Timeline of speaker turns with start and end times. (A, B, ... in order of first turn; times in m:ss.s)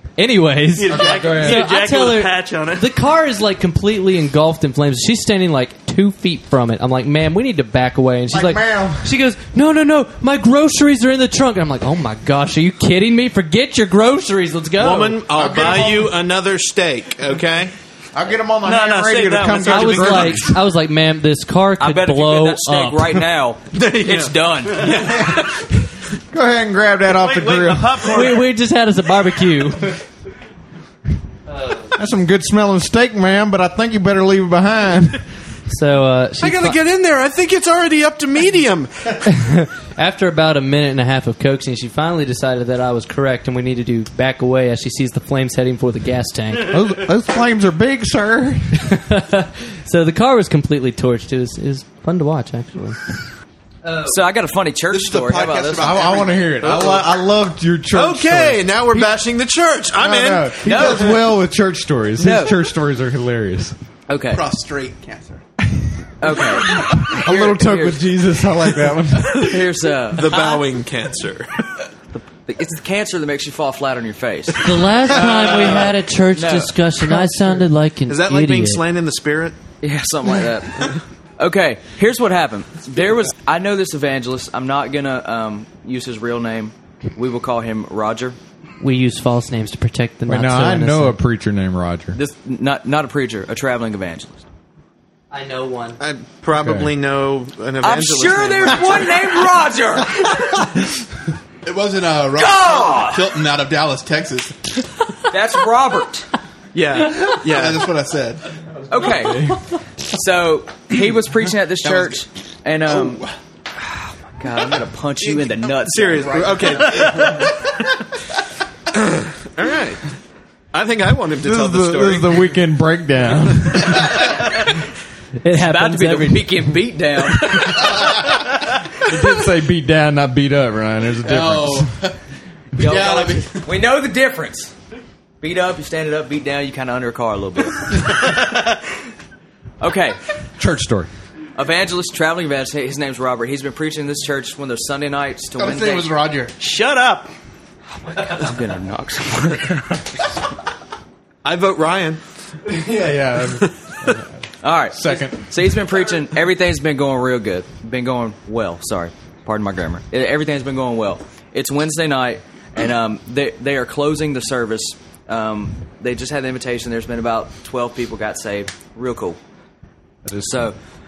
0:00.2-0:15.2 A
0:00.8-0:03.0 B
0:00.9-0:01.6 C
0:08.3-0:09.1 C
0:14.8-0:17.7 D
0:15.3-0:16.1 C
0:18.1-0:20.5 C
0:18.6-0:20.4 B
0:19.6-0:23.2 A
0:20.0-0:20.5 D
0:21.8-0:24.9 E
0:23.7-0:25.8 D
0:25.1-0:25.4 C
0:26.3-0:28.0 C
0:27.1-0:28.5 B
0:28.1-0:30.0 A
0:31.5-0:32.0 A
0:32.0-0:35.2 C
0:35.7-0:36.8 A
0:36.4-0:39.2 D
0:39.4-0:46.7 A
0:46.7-0:48.8 C
0:48.8-0:53.2 A
0:53.8-0:54.2 A
0:54.0-0:56.8 E
0:54.9-0:57.0 F
0:55.7-0:58.7 C
0:57.9-1:01.3 D
1:00.0-1:03.7 C
1:00.6-1:01.1 E
1:02.2-1:02.6 E
1:04.1-1:04.5 E
1:04.3-1:05.4 F
1:06.2-1:08.1 E
1:06.4-1:09.4 C
1:09.3-1:10.6 E
1:10.1-1:11.5 D
1:12.1-1:14.8 E
1:14.6-1:18.8 A
1:15.1-1:15.9 D
1:16.3-1:16.8 E
1:18.1-1:19.6 D
1:19.8-1:28.4 E
1:28.8-1:31.2 A
1:30.3-1:32.2 C
1:32.1-1:34.4 E
1:35.3-1:36.0 A
1:36.0-1:39.4 D
1:36.5-1:36.9 C
1:37.8-1:40.6 E
1:41.6-1:44.6 F
1:42.3-1:43.4 E
1:45.3-1:46.3 E
1:46.7-1:47.8 D
1:47.2-1:48.4 F
1:48.9-1:49.6 E
1:49.1-1:49.6 C
1:50.1-1:53.2 E
1:51.8-1:52.2 F
1:52.9-1:53.2 D
1:53.9-1:56.8 E
1:55.2-1:57.4 D
1:56.8-1:57.5 B
1:58.9-2:00.0 D
2:00.7-2:02.5 D
2:01.4-2:04.2 C
2:05.4-2:06.6 A
2:05.5-2:08.2 E
2:09.0-2:11.9 C
2:11.2-2:12.2 F
2:12.7-2:14.7 E
2:12.8-2:13.6 F
2:15.4-2:18.4 E
2:19.8-2:20.2 E
2:20.6-2:21.1 C
2:21.6-2:26.1 E
2:25.6-2:26.0 F
2:25.7-2:26.5 C
2:26.6-2:27.3 B
2:28.1-2:30.2 E
2:31.4-2:32.2 D
2:32.6-2:34.3 C
2:33.6-2:34.1 D
2:34.6-2:49.4 E
2:34.9-2:35.4 C
2:50.2-2:50.6 C
2:50.4-2:50.8 E